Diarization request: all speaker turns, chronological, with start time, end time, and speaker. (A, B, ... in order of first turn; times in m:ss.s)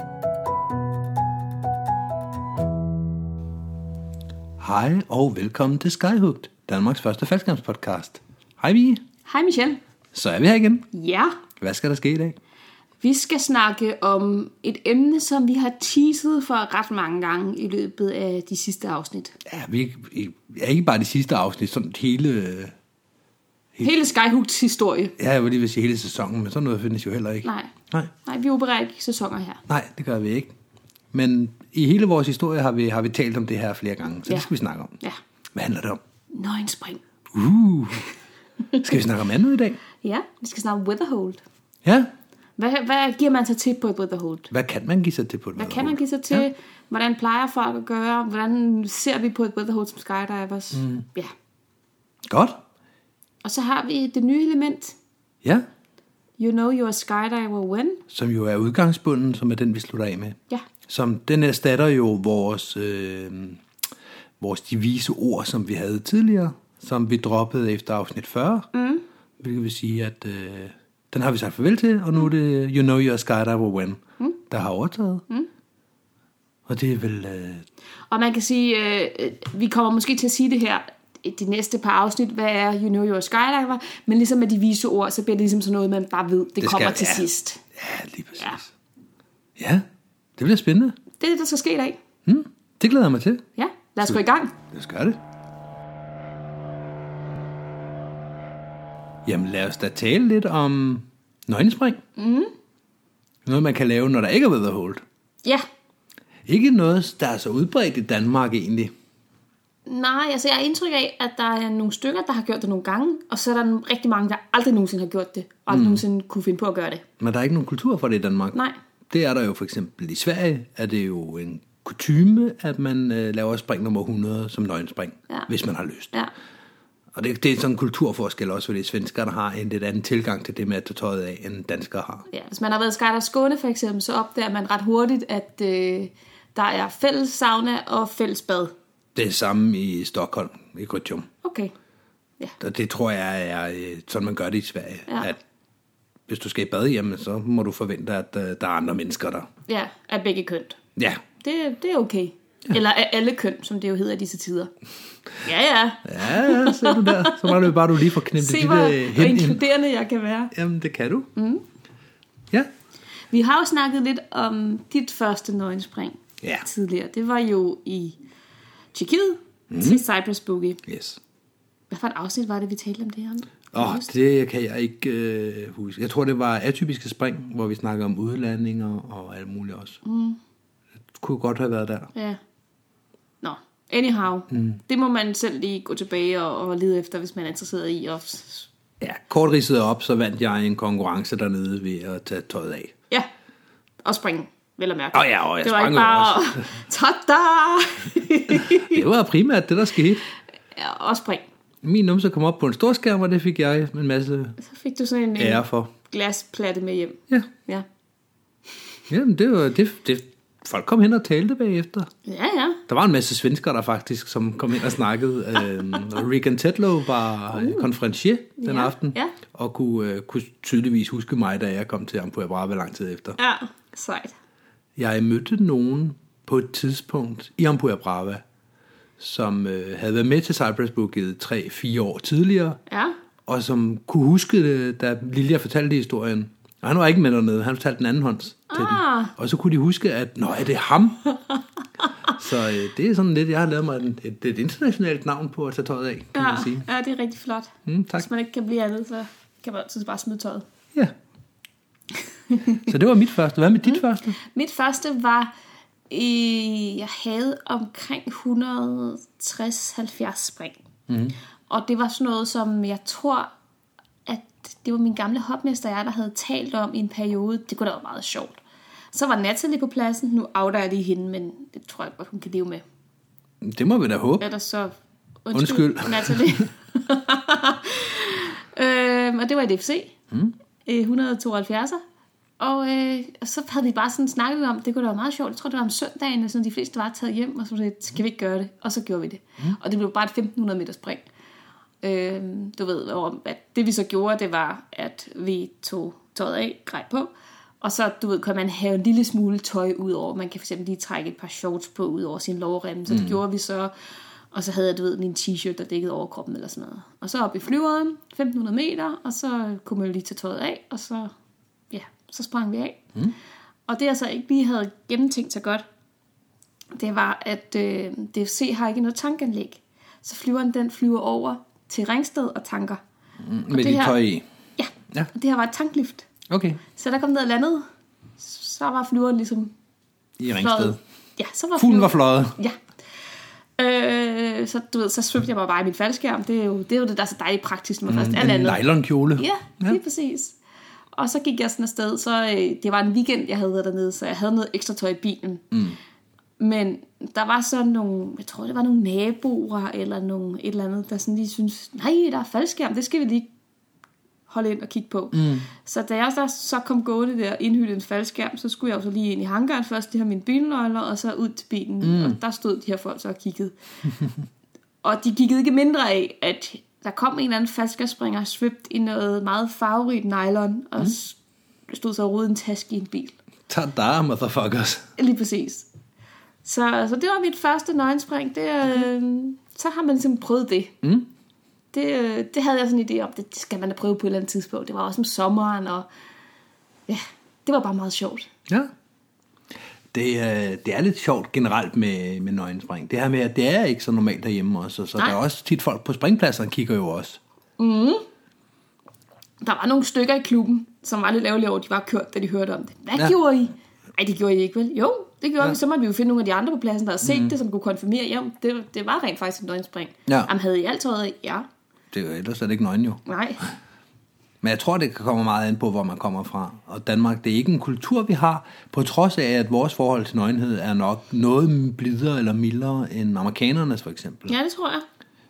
0:04.6-0:09.0 A
0:09.3-0:09.8 B
0:10.1-0:10.9 A
0:10.9-0:11.4 B
0:11.6-0:12.4 A
0:13.0-0:19.3 B
0:19.4-0:22.7 A
0:23.8-0:25.1 B
0:25.2-0:28.1 A
0:27.4-0:27.7 B
0:28.2-0:29.6 B
0:29.7-0:30.5 A
0:31.1-0:35.0 A
0:35.5-0:36.0 A
0:36.3-0:37.0 B
0:37.3-0:38.0 A
0:38.7-0:39.8 A
0:40.0-0:41.4 B
0:41.8-0:42.1 A
0:42.6-0:44.5 B
0:44.5-0:46.5 A
0:45.6-0:51.3 B
0:50.7-0:51.0 A
0:52.3-0:52.6 A
0:53.4-0:55.0 B
0:56.4-0:58.0 B
0:58.1-1:03.6 A
1:04.4-1:08.7 A
1:08.7-1:09.0 B
1:09.4-1:15.2 A
1:16.7-1:17.6 A
1:18.1-1:27.6 B
1:26.6-1:28.7 A
1:29.6-1:29.8 A
1:30.4-1:31.0 A
1:31.2-1:32.0 B
1:32.2-1:33.4 A
1:33.6-1:34.5 B
1:34.0-1:35.2 A
1:39.2-1:42.0 A
1:42.2-1:42.5 B
1:43.4-1:45.0 A
1:46.4-1:48.9 A
1:49.9-1:57.0 B
1:55.7-1:56.0 A
1:57.2-1:58.6 A
1:59.1-2:06.1 A
2:07.1-2:12.2 A
2:12.3-2:18.7 B
2:19.1-2:21.3 A
2:21.4-2:21.7 B
2:22.6-2:25.4 A
2:25.1-2:25.3 B
2:26.3-2:29.5 A
2:29.7-2:30.8 B
2:31.0-2:31.2 A
2:31.4-2:34.7 B
2:35.4-2:37.7 B
2:36.0-2:39.6 A
2:38.3-2:40.5 B
2:40.5-2:41.3 A
2:41.4-2:41.6 B
2:43.3-2:48.2 B
2:48.9-2:50.8 B
2:49.7-2:50.0 A
2:50.8-2:51.2 A
2:51.9-2:54.1 B
2:53.7-3:00.0 A
3:00.0-3:00.4 B
3:01.1-3:02.1 A
3:03.4-3:08.7 B
3:04.5-3:04.8 A
3:09.0-3:12.9 A
3:14.0-3:19.0 B
3:15.1-3:16.6 A
3:18.6-3:20.2 A
3:20.7-3:21.4 B
3:21.8-3:24.6 A
3:24.6-3:27.8 B
3:25.4-3:25.9 A
3:29.1-3:32.1 A
3:32.2-3:32.8 B
3:32.9-3:43.4 A
3:37.5-3:37.8 B
3:38.6-3:39.3 B
3:43.4-3:44.3 B
3:45.0-3:48.4 A
3:49.2-3:52.8 A
3:52.9-3:53.1 B
3:53.5-4:01.2 A
3:58.7-3:59.3 B
4:02.3-4:06.8 A
4:06.3-4:10.6 B
4:07.8-4:08.2 A
4:12.5-4:12.8 B
4:12.8-4:14.4 A
4:13.8-4:15.5 B
4:16.1-4:20.8 B
4:21.1-4:21.3 A
4:21.7-4:23.5 B
4:24.3-4:28.6 B
4:29.1-4:32.8 B
4:33.6-4:34.4 A
4:34.4-4:34.9 B
4:35.4-4:40.1 B
4:35.5-4:36.6 A
4:40.8-4:42.0 B
4:42.6-4:51.3 B
4:52.0-5:03.9 B
5:03.1-5:03.4 A
5:04.5-5:11.3 B
5:11.9-5:13.1 B
5:13.9-5:15.8 B
5:16.9-5:23.0 B
5:23.4-5:24.4 A
5:23.7-5:24.2 B
5:24.8-5:26.3 B
5:26.5-5:26.8 A
5:26.9-5:27.8 B
5:28.4-5:29.7 B
5:30.4-5:31.0 A
5:30.5-5:32.8 B
5:31.8-5:32.6 A
5:33.8-5:38.8 B
5:38.1-5:40.0 A
5:39.3-5:40.6 B
5:41.1-5:45.8 B
5:46.6-5:53.5 B
5:54.5-6:03.7 B
5:55.3-5:55.6 A
6:02.0-6:02.4 A
6:05.0-6:11.4 B
6:11.9-6:13.4 B
6:13.7-6:15.1 A
6:15.2-6:15.9 B
6:16.6-6:21.0 B
6:21.0-6:21.3 A
6:21.9-6:26.1 B
6:27.1-6:28.5 B
6:30.1-6:37.4 A
6:37.8-6:38.2 B
6:39.6-6:51.7 B
6:47.2-6:47.5 A
6:52.1-6:53.2 A
6:53.2-6:53.6 B
6:54.6-7:04.5 A
7:04.5-7:05.0 B